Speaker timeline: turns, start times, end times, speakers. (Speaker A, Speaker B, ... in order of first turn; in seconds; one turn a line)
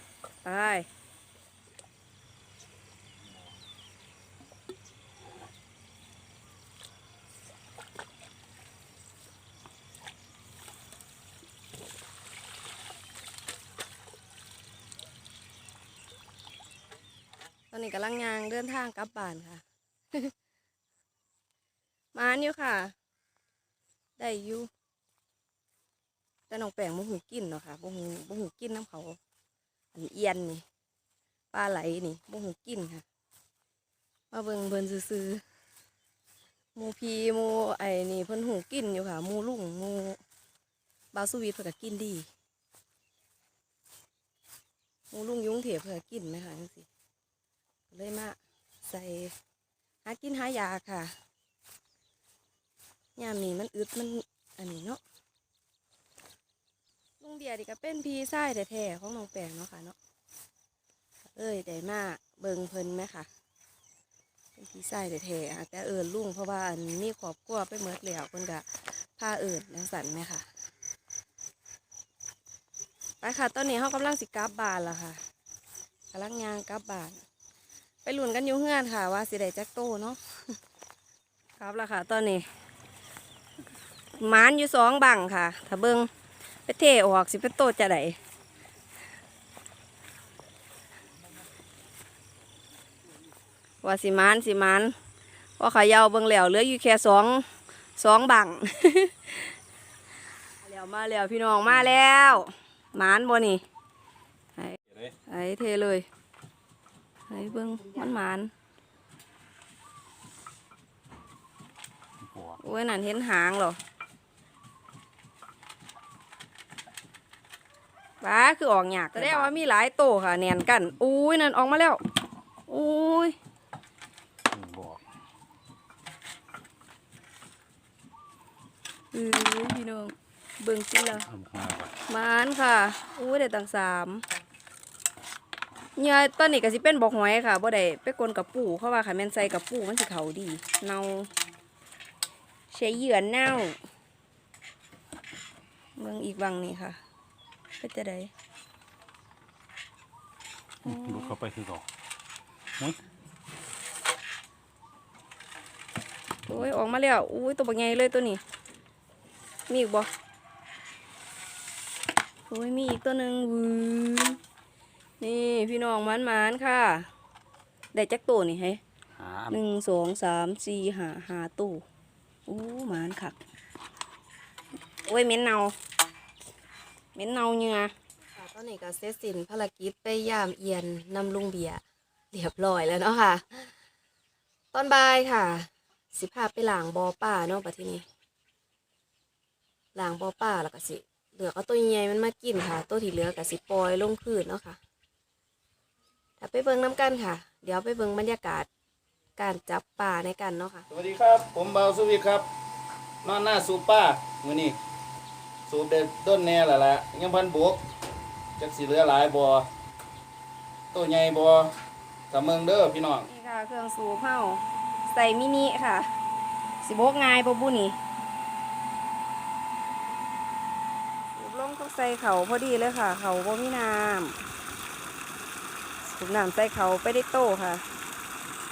Speaker A: 0.4-0.9
Speaker A: 17.7-20.3
Speaker A: 22.1-22.9
Speaker A: 24.2-24.7
Speaker A: 26.5-29.2
Speaker A: 29.9-30.6
Speaker A: 31.5-33.0
Speaker A: 34.3-35.4
Speaker A: 36.7-40.2
Speaker A: 41.1-42.3
Speaker A: 45.1-46.9
Speaker A: 47.9-49.3
Speaker A: 50.0-51.1
Speaker A: 53.1-55.0
Speaker A: 57.2-60.0
Speaker A: 61.3-63.3
Speaker A: 64.5-70.5
Speaker A: 73.2-75.2
Speaker A: 76.1-77.2
Speaker A: 78.0-80.2
Speaker A: 81.6-82.5
Speaker A: 84.1-86.1
Speaker A: 86.7-88.2
Speaker A: 93.8-94.9
Speaker A: 95.6-99.5
Speaker A: 100.6-103.6
Speaker A: 104.6-106.0
Speaker A: 107.3-108.5
Speaker B: 112.2-112.6
Speaker A: 112.6-113.8
Speaker A: 118.2-122.0
Speaker B: 119.2-119.5
Speaker A: 122.7-123.3
Speaker B: 124.5-125.0
Speaker A: 129.1-131.3
Speaker B: 131.1-131.9
Speaker A: 132.1-134.2
Speaker A: 136.0-141.3
Speaker A: 142.7-143.8
Speaker A: 145.9-147.0
Speaker A: 147.8-148.3
Speaker B: 150.8-151.8
Speaker A: 150.8-151.3
Speaker A: 156.5-158.4
Speaker A: 159.7-160.1
Speaker A: 162.5-164.4
Speaker A: 165.2-167.1
Speaker A: 167.9-168.8
Speaker B: 169.1-169.6
Speaker A: 169.5-171.8
Speaker A: 172.4-173.4
Speaker A: 175.1-175.8
Speaker A: 177.1-183.7
Speaker A: 184.7-188.0
Speaker A: 189.9-194.8
Speaker A: 196.4-198.7
Speaker A: 199.4-200.8
Speaker C: 200.9-202.4
Speaker C: 203.2-204.8
Speaker C: 205.7-207.8
Speaker C: 208.6-209.7
Speaker C: 210.9-211.7
Speaker C: 212.3-213.2
Speaker A: 213.2-216.1
Speaker A: 216.8-218.0
Speaker A: 221.3-224.4
Speaker A: 226.1-227.8